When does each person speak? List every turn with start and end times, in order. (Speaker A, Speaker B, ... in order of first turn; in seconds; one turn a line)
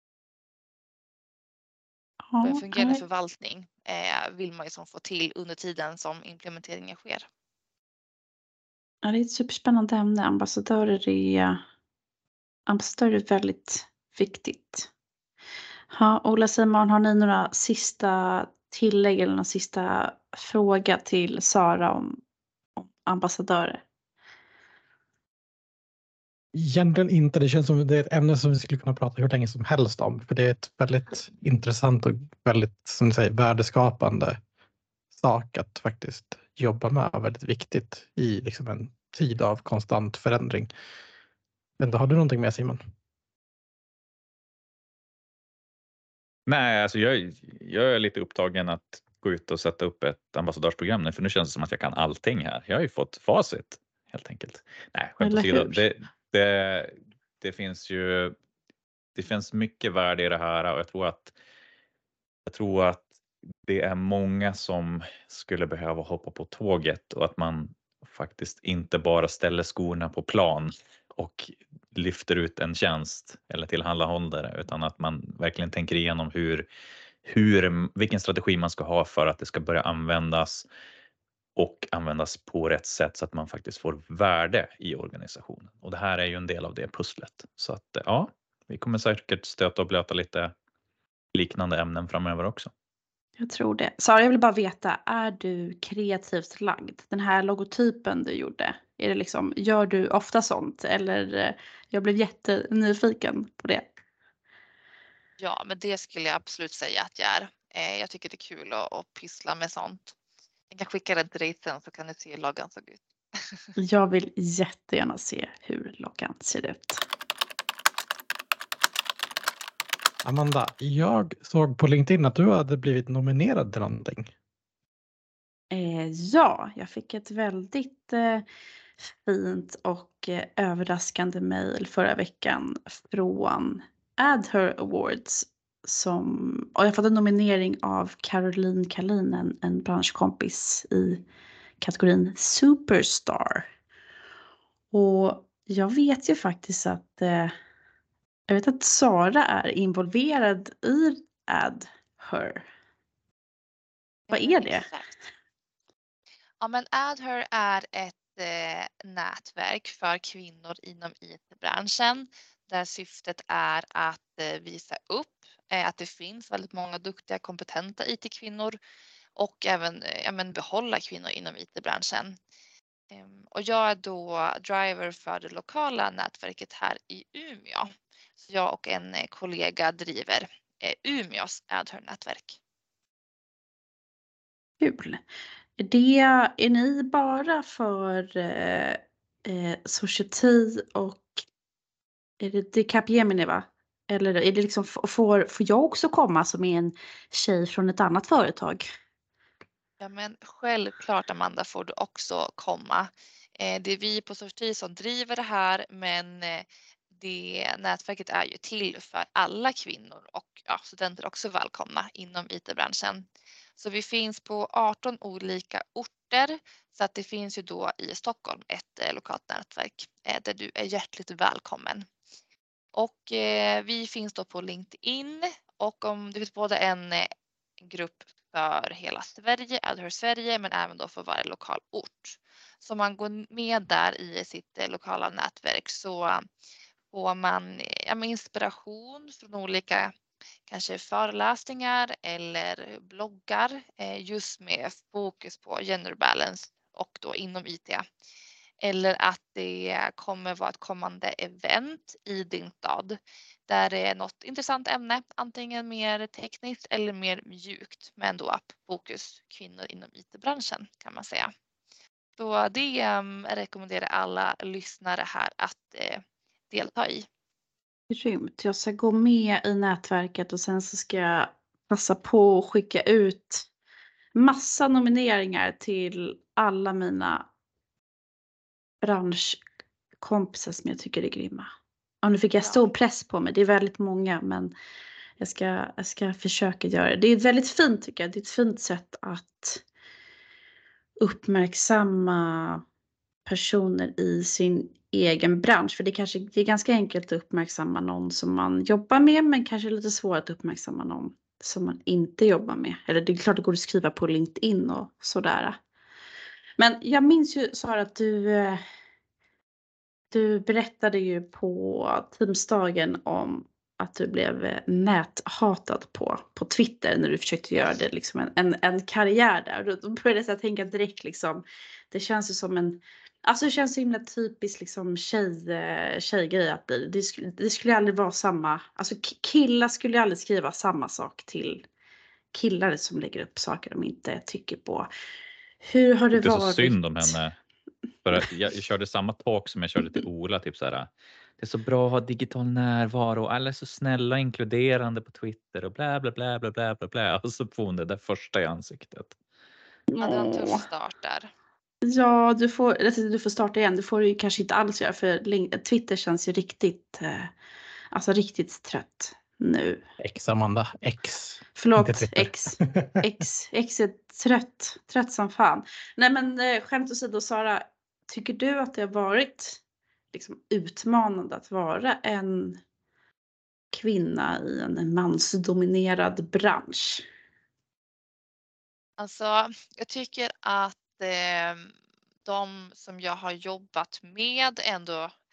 Speaker A: 2.3-3.0
Speaker B: 2.4-7.3
Speaker A: 9.0-11.6
Speaker A: 12.7-14.9
Speaker A: 15.9-22.2
Speaker A: 22.8-23.8
Speaker C: 26.5-34.4
Speaker C: 35.1-40.7
Speaker C: 41.8-42.8
Speaker D: 46.5-58.3
Speaker A: 55.2-55.8
Speaker D: 59.1-61.3
Speaker D: 62.5-63.1
Speaker D: 63.6-76.7
Speaker D: 77.2-80.7
Speaker D: 81.5-90.5
Speaker D: 91.3-92.7
Speaker A: 93.4-103.9
Speaker B: 105.4-110.1
Speaker B: 110.7-113.0
Speaker A: 113.8-117.0
Speaker C: 120.2-124.3
Speaker A: 125.7-128.4
Speaker A: 129.0-141.2
Speaker A: 141.8-143.7
Speaker A: 144.9-147.5
Speaker A: 148.5-152.6
Speaker B: 154.3-155.1
Speaker A: 154.3-154.9
Speaker B: 156.6-168.8
Speaker B: 169.3-172.4
Speaker B: 173.1-182.6
Speaker A: 184.8-185.2
Speaker A: 185.8-191.3
Speaker A: 192.4-198.8
Speaker B: 200.0-222.1
Speaker B: 222.9-227.3
Speaker B: 227.8-236.4
Speaker B: 237.1-240.1
Speaker B: 240.7-248.0
Speaker B: 248.8-261.5
Speaker B: 262.4-267.3
Speaker A: 268.1-273.7
Speaker A: 274.3-277.4
Speaker A: 279.0-279.6
Speaker A: 280.2-281.7
Speaker A: 282.2-284.7
Speaker A: 285.4-289.8
Speaker A: 291.2-292.8
Speaker A: 293.4-305.8
Speaker A: 306.8-308.8
Speaker A: 310.3-331.8
Speaker A: 332.5-335.1
Speaker A: 335.8-337.3
Speaker D: 336.3-337.5
Speaker D: 338.2-349.4
Speaker A: 350.1-350.8
Speaker B: 350.2-351.5
Speaker A: 352.0-357.5
Speaker A: 358.1-360.0
Speaker C: 360.2-363.2
Speaker A: 361.8-369.8
Speaker A: 370.3-372.8
Speaker A: 373.9-377.2
Speaker B: 379.2-381.9
Speaker B: 382.4-385.3